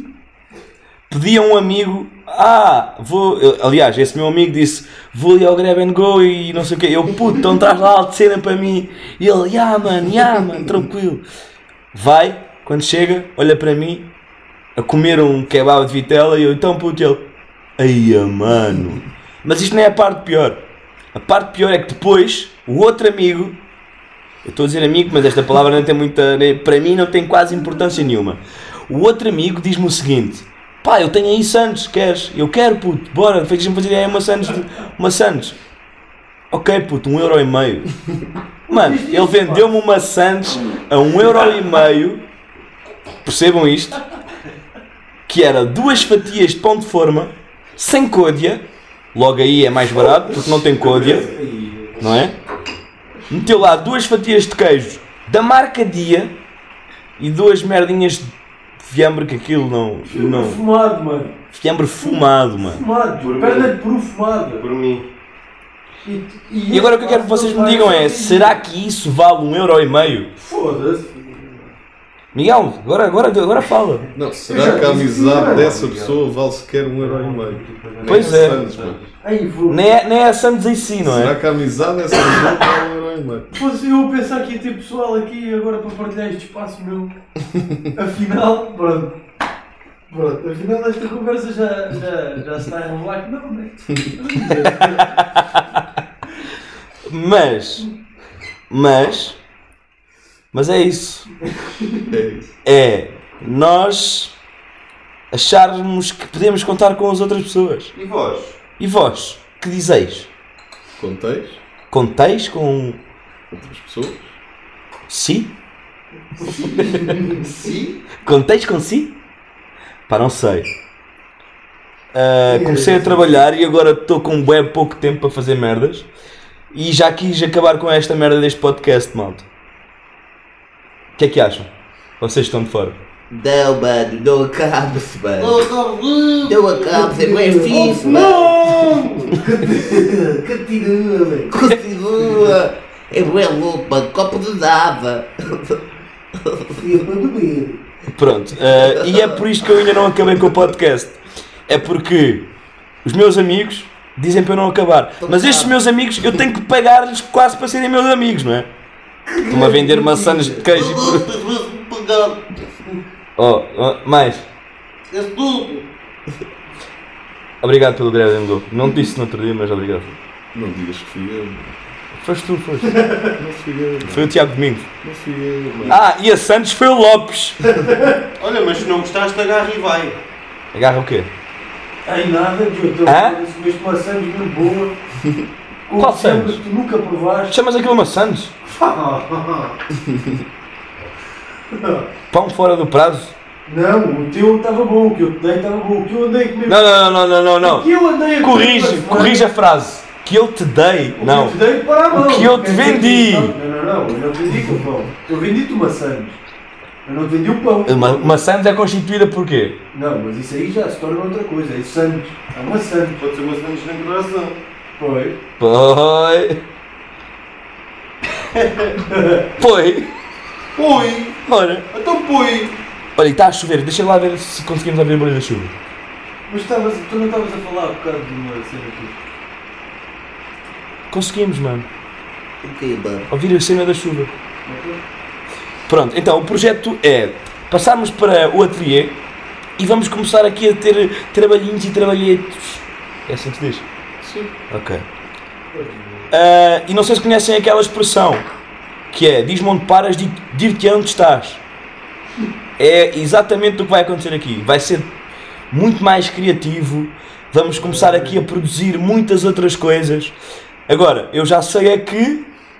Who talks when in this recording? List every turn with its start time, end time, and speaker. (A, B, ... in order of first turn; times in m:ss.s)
0:01.1-0:11.2 A
0:11.9-0:14.1 A
0:14.8-0:17.2 A
0:17.8-0:20.6 A
0:21.1-0:23.6 A
0:24.4-0:35.6 A
0:36.5-0:37.9 A
0:38.7-0:39.7 B
0:38.7-0:42.2 A
0:43.2-0:44.0 A
0:45.3-0:51.3 A
0:50.5-0:52.2 B
0:52.0-0:52.3 A
0:53.3-0:56.3 A
0:57.2-1:00.6 A
1:00.0-1:01.4 B
1:01.5-1:02.8 A
1:02.0-1:04.6 B
1:03.2-1:03.7 C
1:04.6-1:05.1 C
1:06.0-1:08.6 B
1:06.7-1:10.3 A
1:10.4-1:11.6 B
1:12.3-1:14.1 A
1:14.1-1:19.0 D
1:14.4-1:16.2 B
1:17.0-1:19.8 B
1:18.0-1:18.6 A
1:19.7-1:21.3 A
1:21.0-1:23.5 D
1:23.5-1:27.1 B
1:27.9-1:29.2 B
1:30.1-1:35.1 B
1:34.5-1:35.6 A
1:37.0-1:37.9 A
1:38.7-1:39.4 A
1:40.5-1:41.3 A
1:42.1-1:42.5 D
1:42.6-1:44.3 A
1:45.3-1:47.9 A
1:47.9-1:48.6 C
1:48.8-1:50.3 A
1:51.0-1:51.6 D
1:51.9-1:53.0 A
1:53.5-1:54.3 D
1:55.1-1:55.5 A
1:56.4-1:57.4 B
1:56.6-1:58.0 C
1:56.7-1:57.2 A
1:58.2-1:59.2 A
2:00.1-2:00.7 A
2:02.1-2:06.1 A
2:02.5-2:03.2 B
2:06.7-2:09.4 A
2:11.2-2:11.7 A
2:12.2-2:13.0 A
2:13.3-2:15.7 E
2:15.4-2:17.1 C
2:16.4-2:18.9 E
2:16.9-2:18.2 B
2:17.6-2:19.4 C
2:19.3-2:21.5 B
2:21.5-2:25.8 E
2:26.4-2:26.9 E
2:26.8-2:27.8 B
2:28.1-2:32.5 A
2:33.0-2:38.7 A
2:35.2-2:35.7 E
2:39.4-2:40.7 B
2:39.5-2:41.3 A
2:40.7-2:42.4 E
2:43.4-2:44.4 A
2:45.1-2:45.8 C
2:45.3-2:45.8 E
2:47.6-2:50.2 A
2:50.5-2:51.8 D
2:52.2-2:53.0 A
2:53.4-2:54.3 D
2:54.0-2:54.9 A
2:55.0-2:56.0 D
2:55.9-2:57.8 A
2:57.7-2:58.1 B
2:58.4-3:00.2 C
3:00.7-3:01.3 A
3:02.0-3:05.0 B
3:03.0-3:03.4 A
3:05.9-3:07.6 B
3:06.0-3:06.6 A
3:07.5-3:08.5 A
3:08.7-3:09.7 B
3:10.1-3:10.4 D
3:11.7-3:12.0 B
3:12.3-3:13.3 A
3:13.6-3:19.4 B
3:16.7-3:21.6 A
3:21.2-3:26.4 B
3:22.1-3:23.5 A
3:27.0-3:28.4 B
3:27.8-3:29.8 A
3:29.9-3:33.2 B
3:33.2-3:34.6 C
3:35.0-3:35.4 B
3:35.6-3:36.6 A
3:38.9-3:39.4 B
3:39.6-3:40.1 A
3:40.8-3:41.3 B
3:41.4-3:41.9 A
3:41.9-3:42.7 B
3:43.2-3:45.7 A
3:46.5-3:49.2 B
3:51.1-3:51.9 A
3:52.6-3:53.3 E
3:53.3-3:54.3 A
3:54.6-3:55.0 B
3:55.9-3:59.2 A
3:59.8-4:03.8 A
4:04.2-4:04.5 D
4:04.7-4:05.0 A
4:05.7-4:06.3 B
4:06.3-4:08.4 A
4:09.1-4:11.6 A
4:12.8-4:15.1 A
4:15.7-4:20.4 A
4:17.7-4:18.4 B
4:20.9-4:22.4 A